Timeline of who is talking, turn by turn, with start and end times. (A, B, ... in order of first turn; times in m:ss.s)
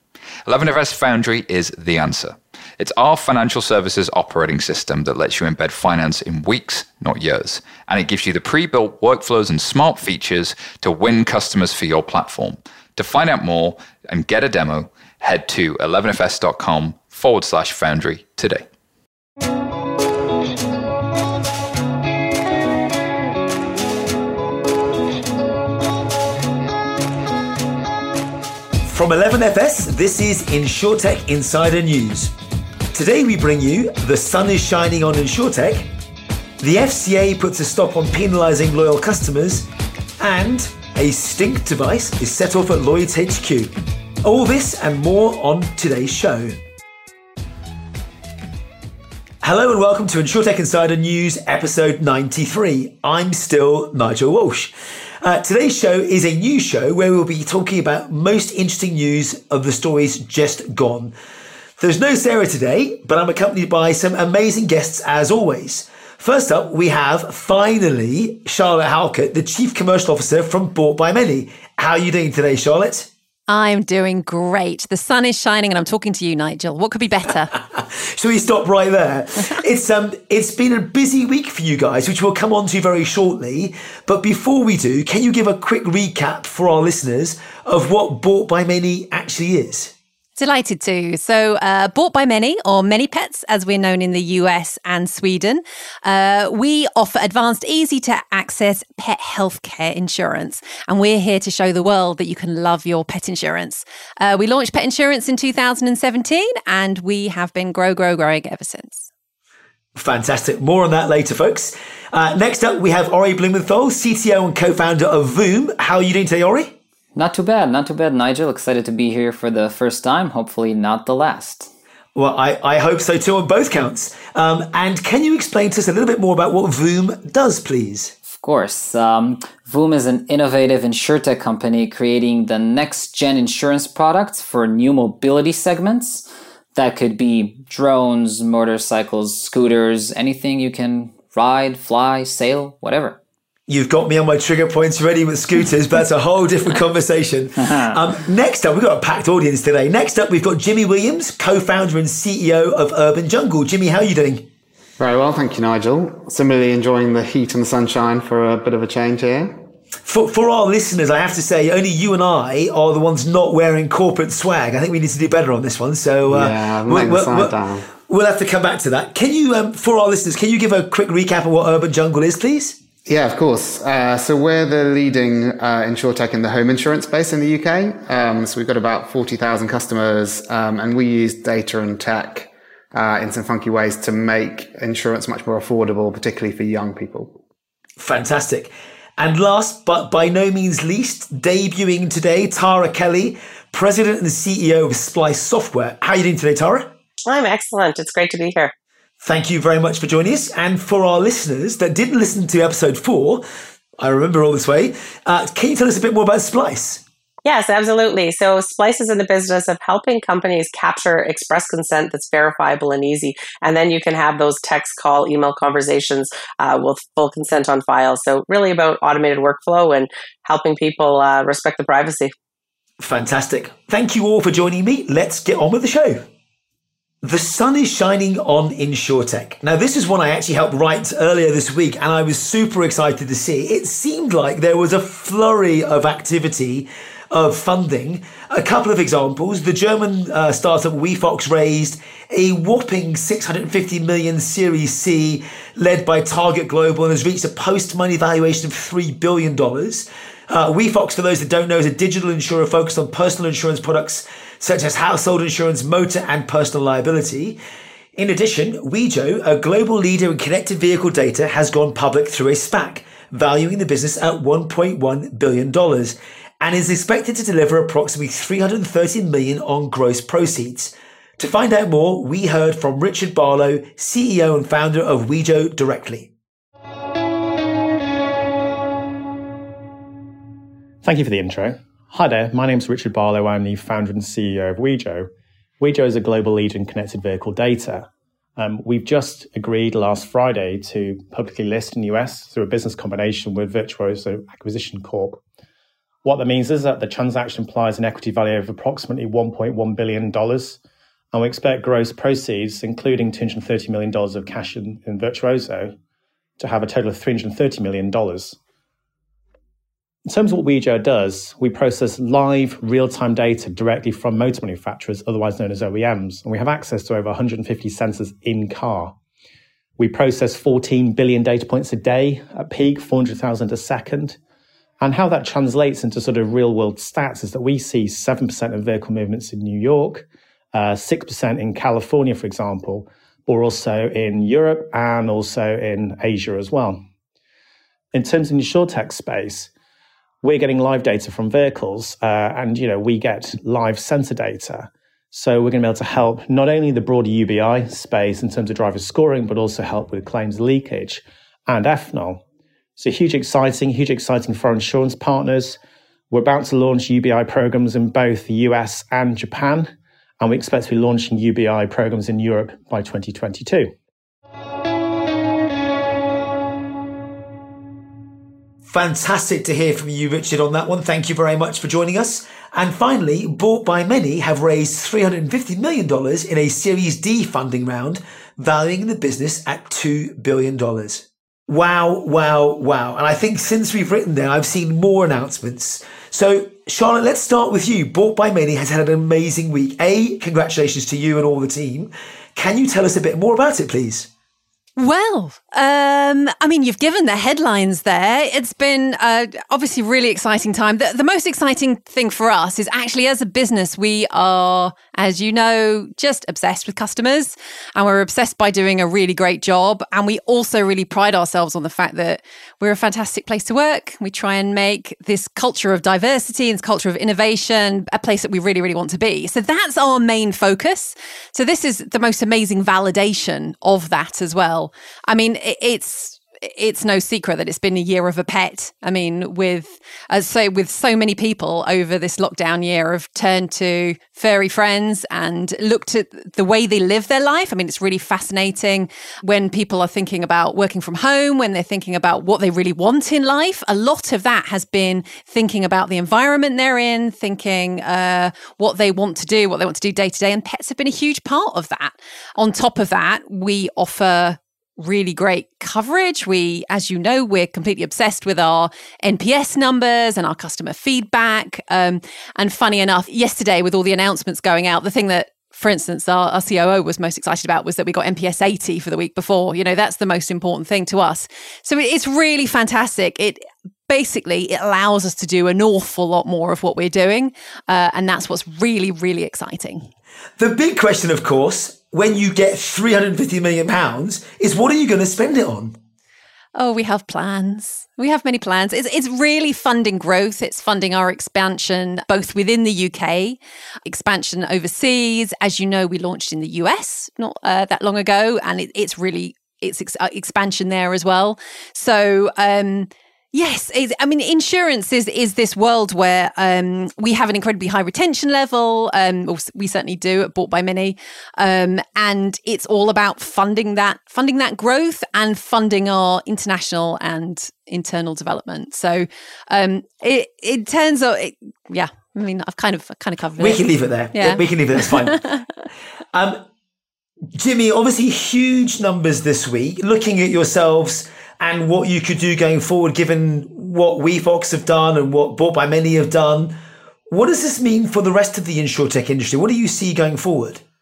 0:00.4-0:18.6 A
0:28.8-0:32.3 B
0:32.9-0:35.9 B
0:36.6-0:39.7 B
0:40.2-0:43.7 B
0:44.2-0:46.6 B
0:49.4-1:01.1 B
1:01.8-1:13.1 B
1:13.5-1:17.5 C
1:17.5-1:29.9 B
1:30.4-1:49.1 C
1:50.0-1:56.8 B
1:57.1-2:01.7 D
2:02.1-2:08.1 B
2:08.2-2:23.2 D
2:23.7-2:34.5 B
2:27.6-2:27.9 D
2:35.0-2:39.6 E
2:40.0-2:52.8 B
2:46.2-2:47.9 E
2:53.0-3:07.4 E
3:08.0-3:16.9 B
3:17.2-3:18.7 F
3:19.2-3:23.4 B
3:24.0-3:27.0 B
3:27.4-3:42.3 F
3:43.0-3:46.2 B
3:47.2-4:17.6 B
4:18.2-4:36.3 B
4:41.0-4:55.4 G
4:56.2-5:00.8 G
5:01.3-5:05.9 G
5:06.6-5:08.6 G
5:10.3-5:19.2 G
5:20.0-5:24.4 G
5:25.0-5:37.0 G
5:38.1-5:39.7 G
5:40.4-5:52.4 G
5:53.0-5:55.8 G
5:56.3-6:03.9 G
6:08.9-6:34.3 B
6:35.0-8:00.1 C
8:00.6-8:06.0 B
8:06.8-8:45.6 C
8:43.6-8:45.4 B
8:46.3-8:46.6 B
8:47.5-8:56.7 B
8:57.3-9:00.8 B